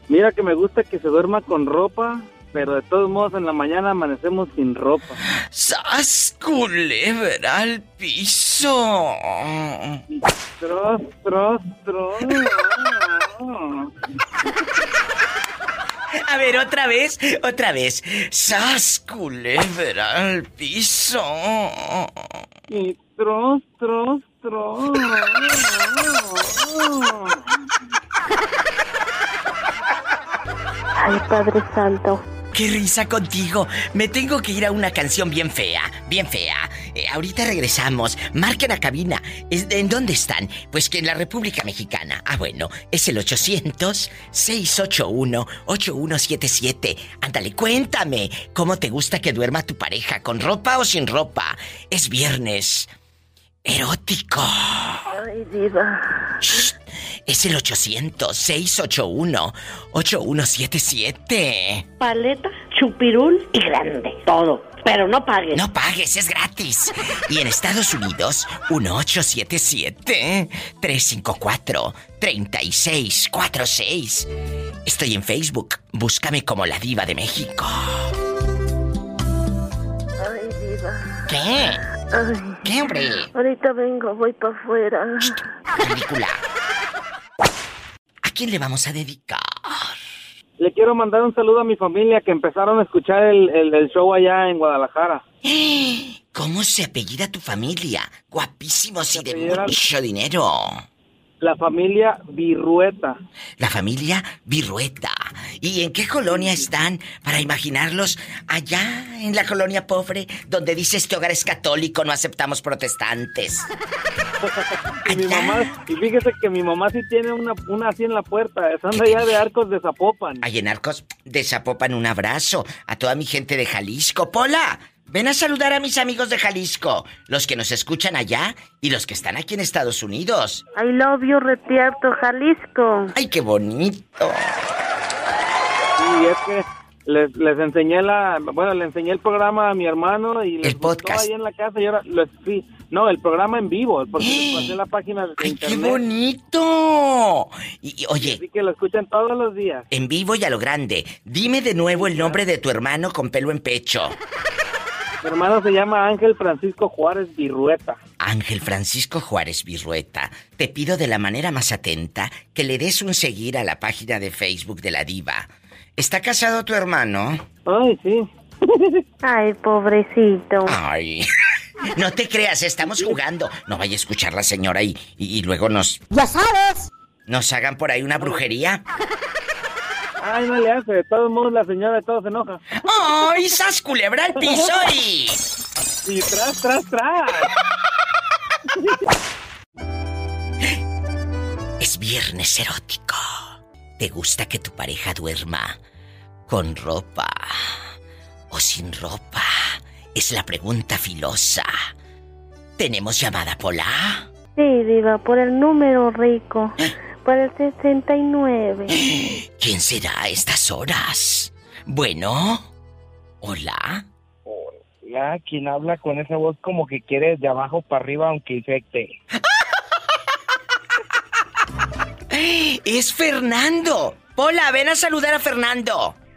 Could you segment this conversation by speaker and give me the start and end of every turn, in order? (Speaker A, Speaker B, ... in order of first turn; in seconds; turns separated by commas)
Speaker A: 0.1-5.2, Speaker B: 5.3-10.0, Speaker A: 10.6-13.9, Speaker B: 16.2-22.2, Speaker A: 22.7-27.4, Speaker C: 30.9-32.2, Speaker B: 32.5-52.9, Speaker B: 53.6-55.1, Speaker C: 55.1-56.4, Speaker B: 56.4-61.9, Speaker D: 62.0-65.6, Speaker B: 65.5-74.3, Speaker B: 74.8-78.1, Speaker C: 80.2-81.1, Speaker B: 81.3-81.8, Speaker C: 82.1-82.7, Speaker B: 82.6-83.3, Speaker C: 83.3-85.4, Speaker B: 85.2-86.4, Speaker B: 88.2-90.0, Speaker A: 90.6-95.2, Speaker B: 95.4-100.8, Speaker A: 99.1-99.7, Speaker A: 101.4-103.2, Speaker B: 103.6-113.7, Speaker A: 114.4-120.4, Speaker B: 115.0-115.7, Speaker B: 118.9-119.4, Speaker B: 120.4-130.6, Speaker C: 130.7-133.1, Speaker B: 133.1-134.6, Speaker A: 136.0-146.0, Speaker B: 140.6-141.3, Speaker B: 144.2-144.7, Speaker B: 145.4-148.4, Speaker A: 148.2-149.8, Speaker B: 149.9-154.2, Speaker A: 151.9-152.4, Speaker A: 155.2-158.0, Speaker B: 158.2-167.4, Speaker A: 167.7-169.0, Speaker C: 169.2-170.8, Speaker B: 170.7-171.3, Speaker B: 171.9-176.0, Speaker B: 177.3-178.8, Speaker A: 180.2-182.6, Speaker B: 182.8-185.4, Speaker A: 186.1-187.5, Speaker B: 191.8-195.8, Speaker B: 196.5-197.8, Speaker B: 198.5-201.7, Speaker B: 202.8-204.3, Speaker C: 204.6-209.0, Speaker B: 209.0-212.7, Speaker B: 213.4-214.1, Speaker E: 214.4-219.1, Speaker B: 222.3-226.2